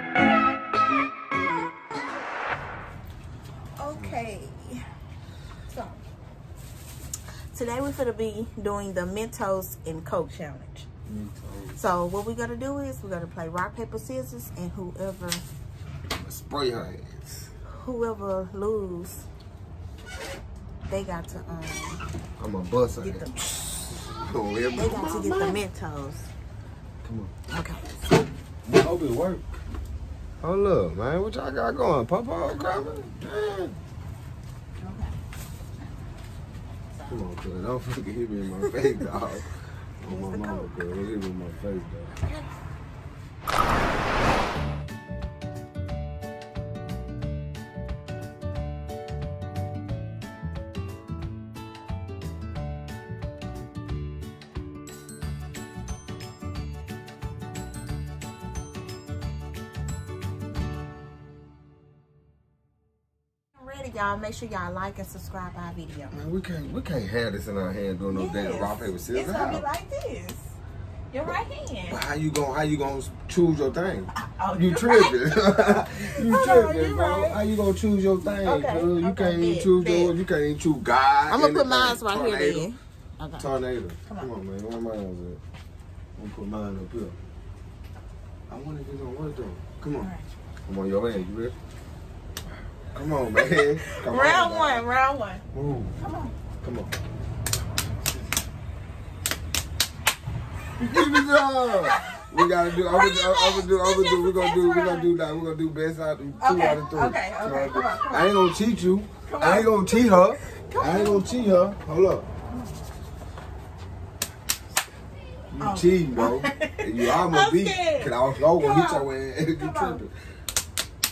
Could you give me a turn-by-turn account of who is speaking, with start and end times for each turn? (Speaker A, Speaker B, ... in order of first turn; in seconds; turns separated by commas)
Speaker A: 3.8-4.8, Speaker B: 3.9-4.2, Speaker A: 5.7-6.0, Speaker A: 7.5-10.9, Speaker B: 11.1-11.8, Speaker A: 11.7-15.4, Speaker B: 16.2-17.3, Speaker A: 17.7-19.2, Speaker A: 20.9-22.0, Speaker B: 22.4-23.3, Speaker A: 23.0-24.1, Speaker B: 24.0-25.6, Speaker A: 24.7-26.3, Speaker B: 27.0-27.3, Speaker A: 27.5-28.1, Speaker B: 28.6-29.5, Speaker B: 30.4-33.8, Speaker A: 34.8-35.1, Speaker B: 37.1-42.1, Speaker A: 40.1-40.9, Speaker A: 63.5-66.2, Speaker B: 66.1-69.7, Speaker A: 68.1-70.5, Speaker A: 71.1-72.0, Speaker B: 71.9-82.7, Speaker A: 74.1-77.4, Speaker A: 78.2-80.2, Speaker A: 81.3-83.4, Speaker B: 83.4-85.4, Speaker B: 86.2-87.2, Speaker B: 88.5-90.1, Speaker A: 90.0-90.3, Speaker B: 90.7-91.5, Speaker B: 92.9-94.8, Speaker A: 93.3-95.4, Speaker B: 95.5-96.0, Speaker A: 96.0-96.3, Speaker B: 96.6-96.9, Speaker B: 100.8-112.3, Speaker A: 101.8-105.1, Speaker A: 106.4-108.4, Speaker A: 109.2-111.4, Speaker B: 115.5-120.1, Speaker A: 115.6-120.0